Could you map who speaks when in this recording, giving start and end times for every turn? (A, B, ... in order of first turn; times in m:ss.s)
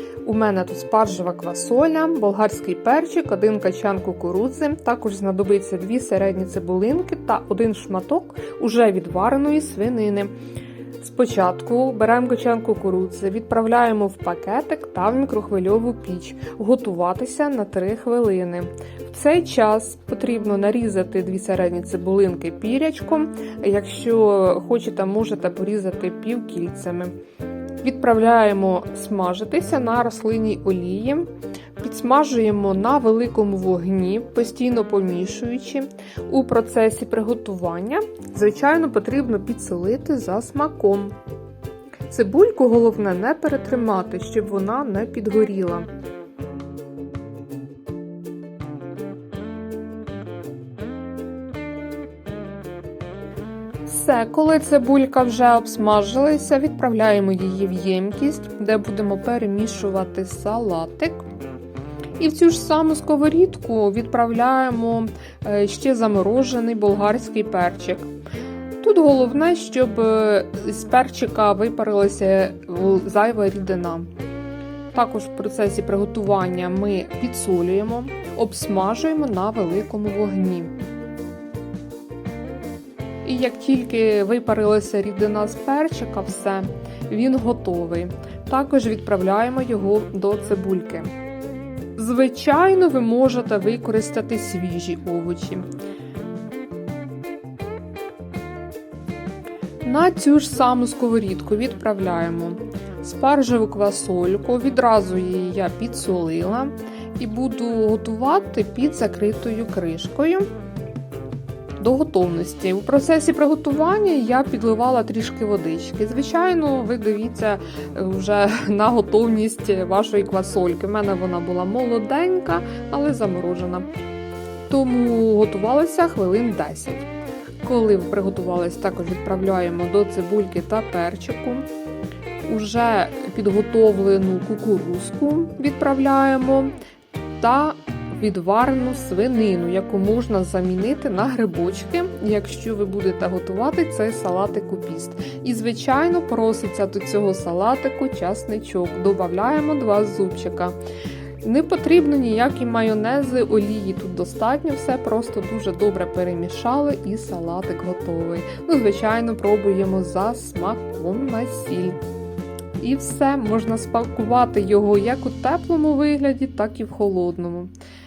0:00.2-0:10.3 A
0:11.0-0:27.2 A
0:27.8-0:41.2 A
0:42.1-0:45.9 A
0:53.9-1:01.2 A
1:02.2-1:08.1 A
1:08.8-1:14.1 A
1:14.9-1:20.7 A
1:23.2-1:31.1 A
1:32.0-1:35.6 A
1:39.8-1:50.5 A
1:51.8-2:03.9 A
2:04.7-2:07.1 A
2:07.6-2:11.7 A
2:12.5-2:16.7 A
2:17.4-2:30.8 A
2:31.4-2:42.0 A
2:42.8-2:47.7 A